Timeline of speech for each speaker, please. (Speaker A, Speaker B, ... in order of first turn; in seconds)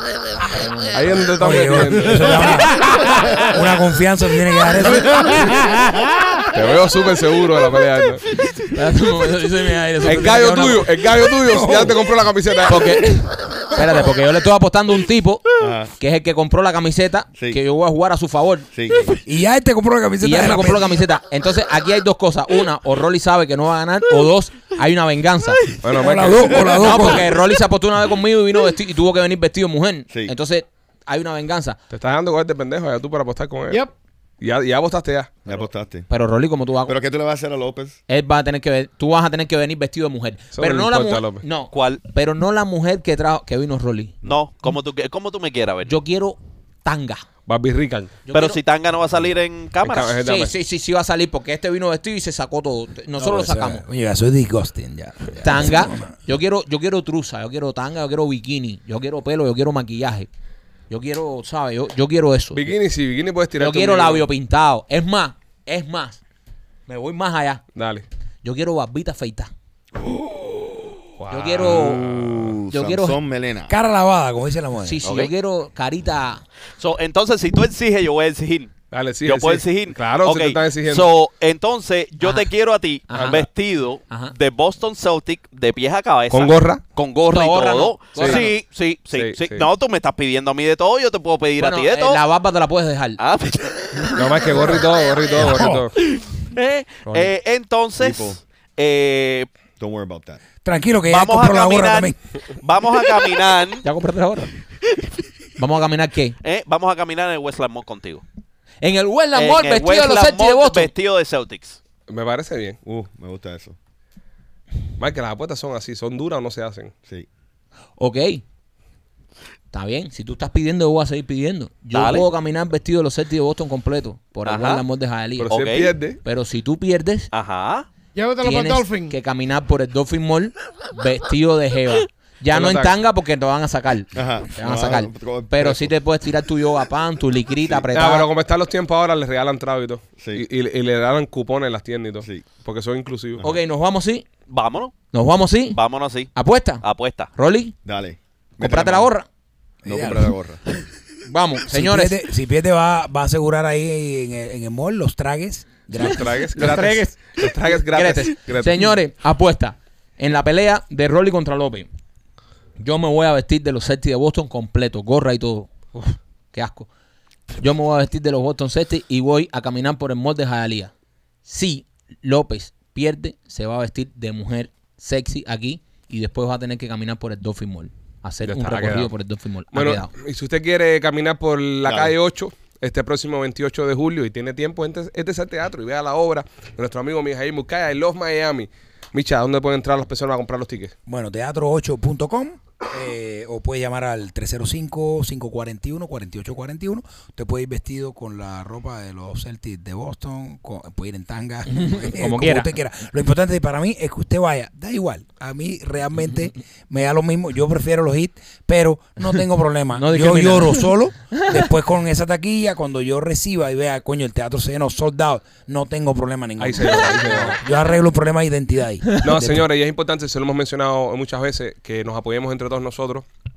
Speaker A: 0.4-1.2, 8.5-10.8, 12.7-18.7, 20.2-25.8, 26.7-31.8, 36.1-37.0, 38.1-44.2, 45.8-47.2, 48.3-48.6, 50.2-53.8, 55.4-60.3, 60.9-62.7, 63.6-66.2, 66.9-67.6, 68.4-69.5, 71.3-72.0, 72.7-73.2, 74.8-76.4, 82.2-82.5, 83.1-83.5, 84.1-84.3, 87.3-88.5, 91.6-93.2, 97.0-97.3, 103.8-104.5, 105.6-106.3, 108.8-110.9, 118.0-118.4, 119.7-125.6, 126.2-127.3, 128.4-138.3, 143.4-144.2, 145.1-145.8, 146.3-147.7, 148.6-149.3, 151.3-152.2, 156.5-161.9, 162.8-166.9, 167.6-170.9, 171.4-180.1, 201.7-202.7, 209.9-211.6
Speaker B: 0.9-2.6, 6.5-8.2, 10.1-13.2, 25.8-27.1, 31.9-33.8, 34.4-35.5, 40.5-41.4, 47.5-48.1, 49.8-50.5, 62.5-64.2, 67.7-68.0, 71.2-72.6, 78.9-81.1, 86.3-86.8, 88.1-88.5, 89.1-89.7, 94.1-95.9, 112.1-112.8, 115.0-116.9, 125.4-126.2, 132.5-132.9, 137.9-143.4, 155.9-158.9, 178.5-179.1, 179.7-190.9, 216.6-217.6, 219.2-223.2
Speaker C: 1.4-5.5, 11.4-12.0, 13.7-14.0, 19.2-21.0, 25.9-27.3, 53.2-56.1, 73.7-75.0, 95.3-95.8, 100.6-102.2, 149.8-150.3, 151.7-156.8, 191.1-219.6
Speaker D: 2.8-3.4, 4.8-6.5, 128.1-129.1
Speaker E: 15.6-15.9, 18.7-19.0, 35.5-36.1, 36.9-38.0, 71.6-73.8, 98.0-98.4, 99.8-100.4, 112.8-113.8, 134.1-135.9, 140.2-140.4, 142.2-142.4, 147.8-149.1, 149.8-150.6, 181.8-182.1
Speaker F: 41.7-42.0, 44.2-45.9, 48.3-50.2, 75.0-75.3, 76.8-78.7, 79.2-92.2, 93.2-94.7, 96.0-99.5, 101.1-103.8, 106.4-108.2, 109.3-111.8, 121.9-122.3, 124.5-124.8, 125.5-125.9, 127.3-127.9, 144.5-144.9, 145.7-147.3